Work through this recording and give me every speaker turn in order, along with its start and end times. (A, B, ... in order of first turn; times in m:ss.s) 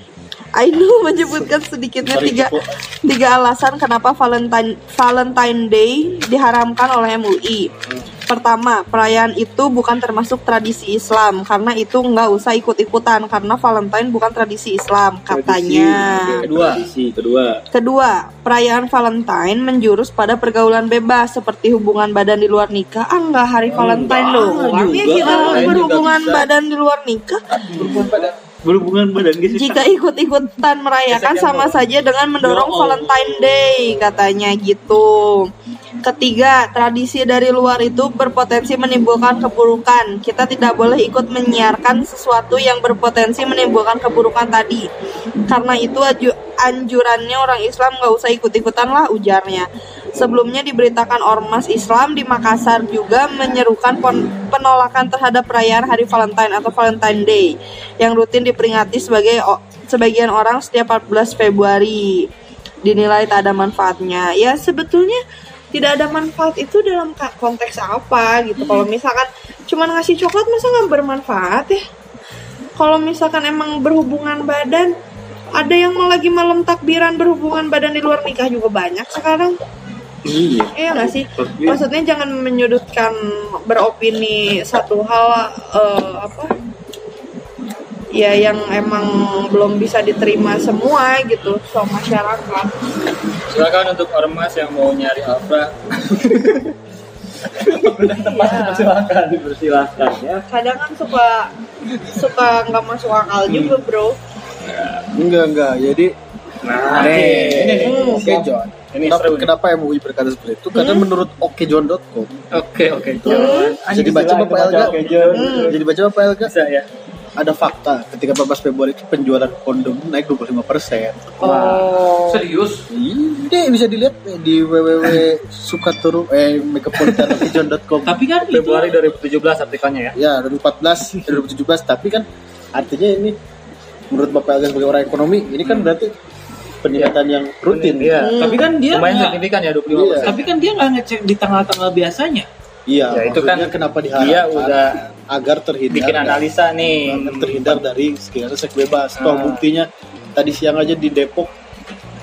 0:00.5-0:07.7 A
0:02.1-0:02.8 B
0:08.3-0:16.4 A
0:15.3-0:17.6 C
0:16.4-0:16.8 D
0:17.7-0:27.4 A
0:23.7-0:26.1 C
0:25.0-0:26.4 D
0:27.5-0:29.9 C
0:27.8-0:28.3 B
0:29.5-0:35.5 A
0:31.1-0:31.8 D
0:32.4-0:34.0 C
0:36.0-0:44.9 A
0:45.5-1:02.3 A
1:02.8-1:05.2 A
1:05.7-1:11.8 A
1:08.6-1:08.8 D
1:12.8-1:14.9 A
1:15.5-1:19.6 A
1:20.2-1:21.8 C
1:20.7-1:26.5 A
1:28.1-1:32.7 A
1:33.5-1:36.7 D
1:37.4-1:40.1 D
1:38.0-1:38.9 A
1:40.0-1:40.4 C
1:40.5-1:41.5 A
1:42.0-1:44.2 A
1:43.5-1:43.8 C
1:44.6-1:45.1 C
1:45.1-1:46.1 B
1:46.6-1:48.0 C
1:46.8-1:52.3 B
1:46.9-1:49.5 D
1:47.8-1:48.3 A
1:50.7-1:51.0 A
1:52.5-1:55.8 D
1:53.2-1:56.5 B
1:53.2-1:53.8 A
1:53.9-1:55.7 C
1:55.3-1:55.7 A
1:56.4-1:56.8 D
1:57.4-2:01.4 B
2:01.4-2:01.9 D
2:01.4-2:02.4 A
2:02.2-2:02.9 C
2:02.9-2:08.2 B
2:08.0-2:09.1 C
2:08.5-2:10.2 D
2:10.1-2:13.4 B
2:14.1-2:16.1 B
2:16.8-2:18.3 B
2:17.7-2:20.4 D
2:18.2-2:18.7 A
2:18.4-2:19.4 C
2:19.9-2:20.4 B
2:20.2-2:22.5 C
2:22.9-2:26.4 B
2:23.1-2:25.0 D
2:25.9-2:27.4 D
2:27.0-2:31.5 B
2:27.2-2:27.7 C
2:29.1-2:29.6 D